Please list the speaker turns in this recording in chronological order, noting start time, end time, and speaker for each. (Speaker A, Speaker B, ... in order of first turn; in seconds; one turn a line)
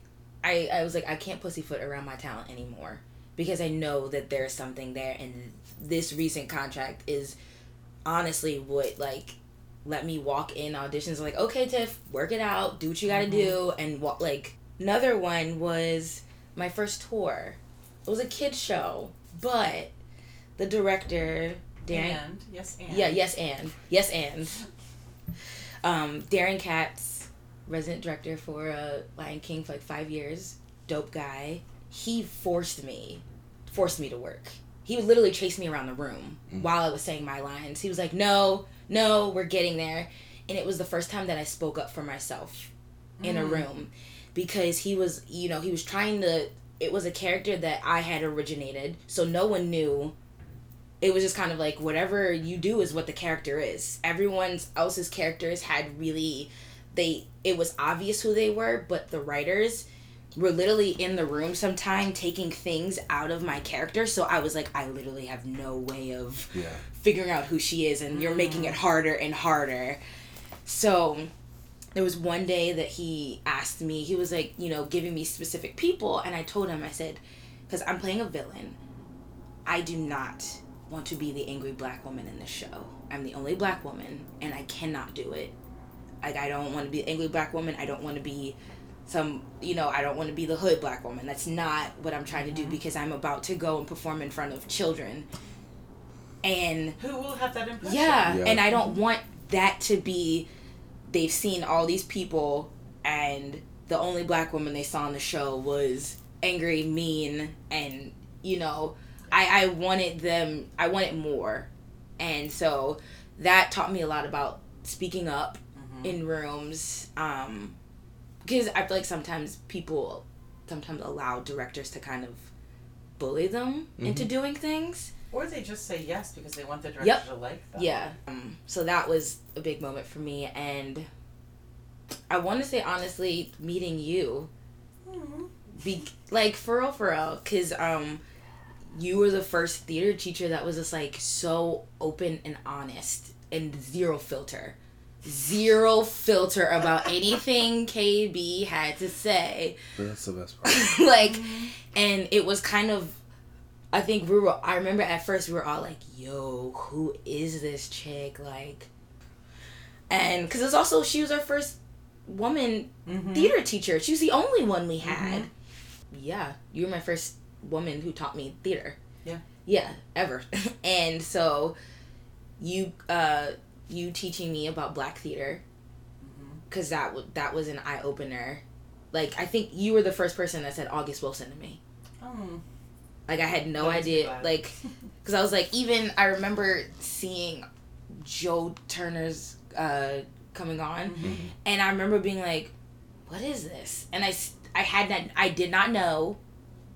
Speaker A: 0.4-7.3
Speaker A: 8.0-19.9
Speaker B: 13.1-13.6
Speaker A: 20.6-22.2
Speaker B: 21.8-23.2
Speaker A: 22.9-24.6
Speaker A: 25.8-42.7
Speaker B: 43.2-43.7
Speaker A: 43.2-50.1
Speaker A: 51.0-70.0
Speaker C: 66.5-66.8
Speaker B: 68.1-68.8
Speaker A: 70.7-71.3
Speaker A: 71.9-78.8
Speaker A: 79.7-85.5
Speaker A: 86.2-95.3
Speaker B: 92.4-92.8
Speaker A: 96.4-97.0
Speaker B: 97.0-98.9
Speaker A: 97.8-100.5
Speaker C: 98.2-98.6
Speaker A: 101.1-117.8
Speaker B: 115.7-116.2
Speaker A: 118.4-122.5
Speaker A: 123.2-125.1
Speaker C: 124.0-124.3
Speaker B: 125.3-128.0
Speaker A: 127.7-131.1
Speaker A: 132.3-134.5
Speaker B: 135.0-135.5
Speaker A: 135.8-138.2
Speaker A: 138.9-149.8
Speaker C: 149.9-150.9
Speaker A: 150.6-153.2
Speaker B: 151.2-151.7
Speaker A: 153.9-158.9
Speaker A: 160.1-165.5
Speaker B: 163.1-163.5
Speaker B: 165.0-165.5
Speaker A: 166.1-169.0
Speaker A: 169.6-171.8
Speaker A: 172.6-175.6
Speaker B: 176.2-176.6
Speaker A: 176.7-181.8
Speaker B: 182.2-182.6
Speaker A: 183.3-192.7
Speaker B: 183.7-184.7
Speaker B: 191.0-191.4
Speaker C: 191.2-191.5
Speaker A: 193.3-196.4